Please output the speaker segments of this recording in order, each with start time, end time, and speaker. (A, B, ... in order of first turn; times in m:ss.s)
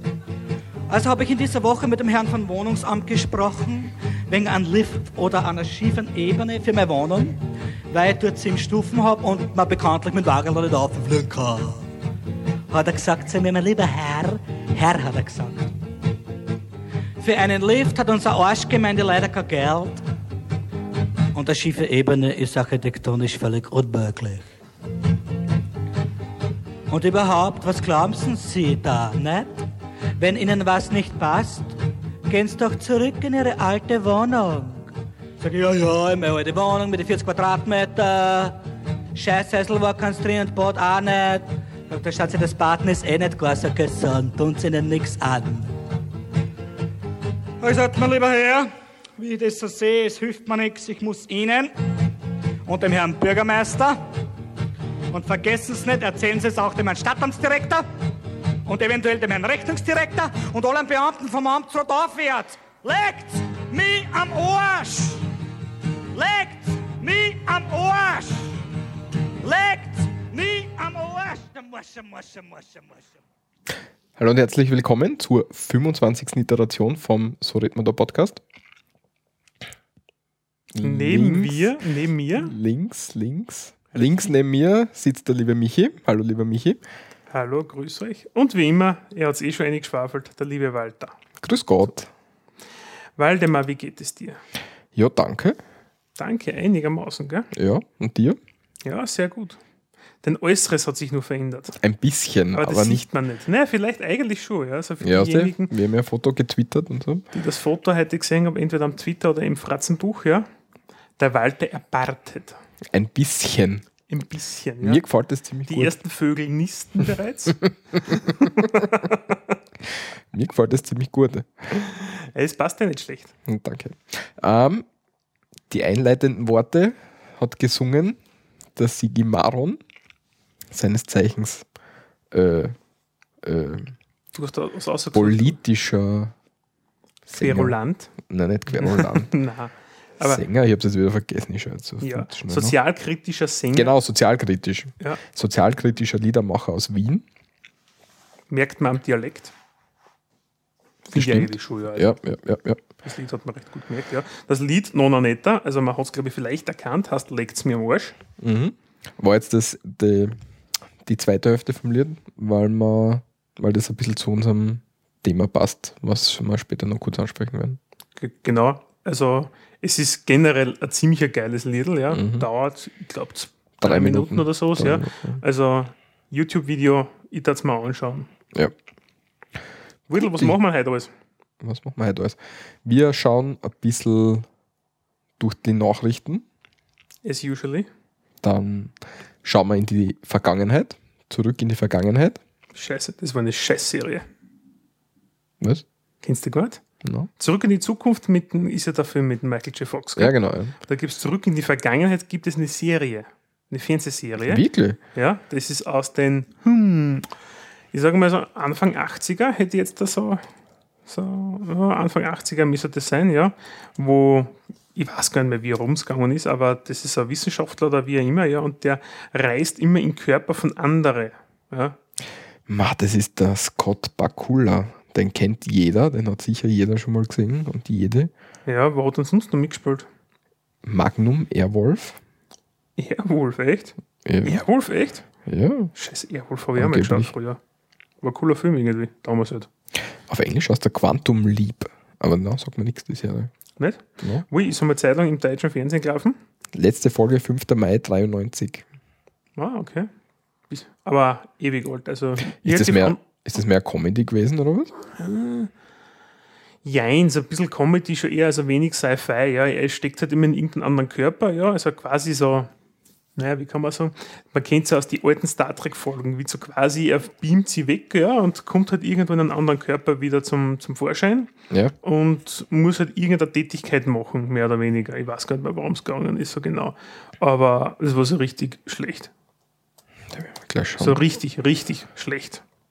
0:00.9-0:07.4 A
0:07.9-0:11.9 A
0:12.7-0:15.7 A
0:17.2-0:20.0 A
0:21.3-0:24.5 A
0:26.9-0:29.6 A
0:30.2-0:31.7 A
0:32.3-0:38.6 A
0:39.2-0:45.7 A
0:47.6-0:51.7 A
0:52.7-0:54.0 A
0:55.1-0:57.8 A
0:58.7-1:05.2 A
1:06.1-1:08.6 A
1:09.4-1:13.0 A
1:14.2-1:18.4 B
1:20.7-1:21.8 B
1:20.8-1:22.5 C
1:22.4-1:26.8 B
1:27.3-1:31.2 C
1:31.4-1:32.1 B
1:33.2-1:34.4 C
1:35.0-1:35.6 B
1:36.2-1:37.5 C
1:37.5-1:38.4 B
1:38.8-1:39.6 C
1:40.2-1:41.8 C
1:41.8-1:43.0 B
1:42.5-1:45.7 C
1:45.0-1:47.3 B
1:47.3-1:50.5 C
1:51.2-1:52.6 C
1:52.9-1:53.8 B
1:54.1-1:55.0 C
1:54.8-1:55.9 B
1:55.7-1:59.4 C
1:59.9-2:01.8 B
2:01.7-2:03.3 C
2:03.5-2:04.9 B
2:05.7-2:08.2 B
2:08.8-2:09.8 B
2:10.7-2:11.7 B
2:12.3-2:12.8 B
2:13.4-2:13.9 B
2:14.3-2:15.6 C
2:15.1-2:16.4 B
2:17.3-2:19.4 B
2:17.4-2:18.1 C
2:18.7-2:20.4 C
2:20.2-2:22.8 B
2:22.0-2:24.0 C
2:23.7-2:27.2 B
2:28.5-2:29.5 C
2:31.1-2:32.8 B
2:31.1-2:32.1 C
2:33.0-2:38.2 C
2:38.4-2:40.4 B
2:41.0-2:47.8 B
2:48.2-2:58.3 C
2:52.1-2:52.5 B
2:53.8-2:55.4 B
3:00.1-3:01.1 C
3:00.2-3:00.6 B
3:01.6-3:04.5 B
3:05.4-3:06.4 B
3:07.2-3:07.9 C
3:08.4-3:12.4 B
3:12.8-3:14.2 C
3:16.2-3:16.8 C
3:17.0-3:17.3 B
3:17.4-3:20.3 C
3:20.2-3:20.8 B
3:20.8-3:24.6 C
3:24.4-3:25.0 B
3:25.1-3:27.3 C
3:27.9-3:30.5 C
3:31.1-3:42.0 C
3:42.7-3:48.3 B
3:48.7-3:50.1 C
3:50.8-3:52.2 B
3:53.0-3:55.2 C
3:54.2-3:54.6 B
3:55.5-3:55.9 B
3:56.0-3:57.6 C
3:56.8-3:57.3 B
3:58.2-3:59.7 C
4:00.3-4:03.5 B
4:03.8-4:06.4 C
4:06.7-4:08.9 B
4:09.6-4:10.1 C
4:10.7-4:13.2 C
4:12.4-4:14.9 B
4:15.2-4:15.7 C
4:16.8-4:22.7 C
4:23.4-4:39.3 C
4:40.3-4:41.2 B
4:41.0-4:42.6 C